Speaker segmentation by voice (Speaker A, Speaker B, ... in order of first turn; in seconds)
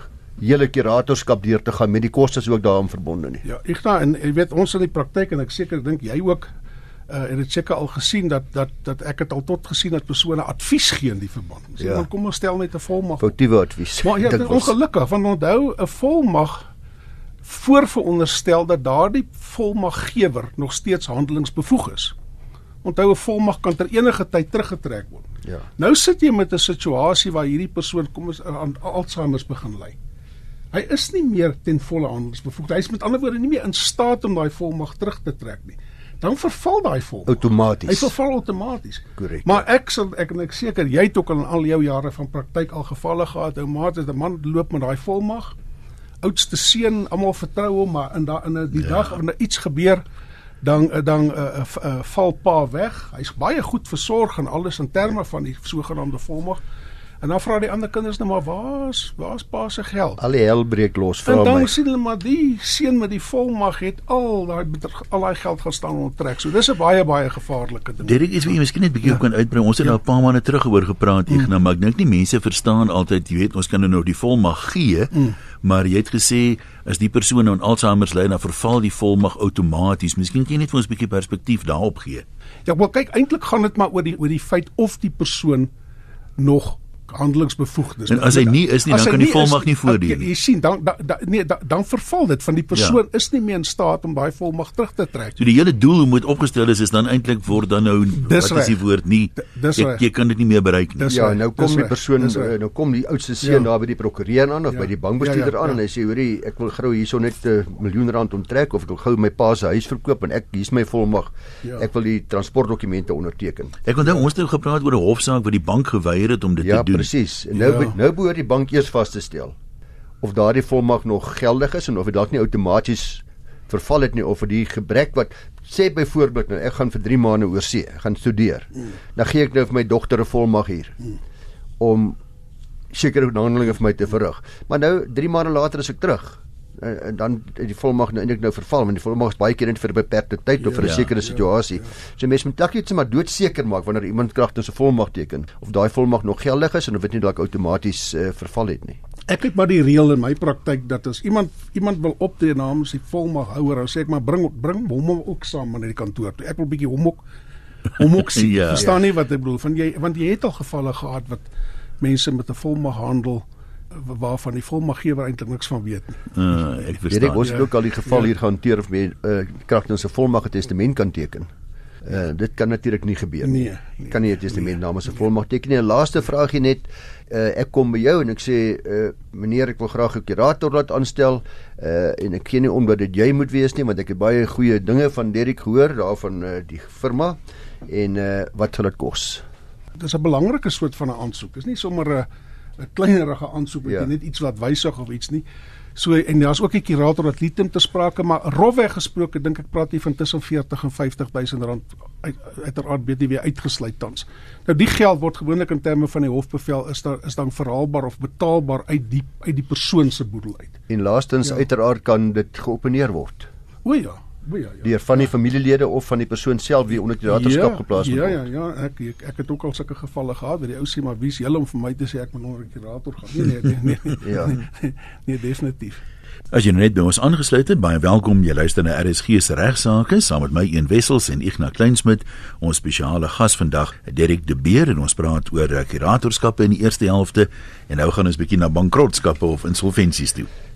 Speaker A: 0.4-3.4, 11.8-12.0, 13.2-14.7, 37.3-38.1, 39.2-39.6, 60.2-61.7, 101.1-113.8, 116.6-119.5, 120.2-131.0, 131.8-132.2, 132.9-149.0, 167.1-171.5, 172.0-189.4, 210.9-213.5, 214.8-218.4, 224.2-224.5
Speaker B: 3.4-6.5, 7.1-13.3, 14.0-16.7, 17.4-22.1, 22.8-30.0, 30.7-45.5, 46.2-50.0, 50.6-56.6, 57.2-60.2, 61.2-68.2, 82.7-85.7, 86.4-95.4, 98.2-98.8, 99.3-100.0, 101.0-102.5, 103.4-103.7, 104.7-105.8, 117.5-117.9, 140.6-141.4, 149.3-157.2, 157.9-161.5, 162.0-166.3, 167.4-168.3, 173.4-174.1, 190.0-192.3, 192.8-195.4, 195.9-210.8, 213.8-214.9, 217.3-226.0
Speaker C: 68.0-82.2, 88.1-90.3, 95.4-101.1, 113.8-117.1, 140.8-141.1, 158.3-158.9, 166.3-167.6, 226.5-240.5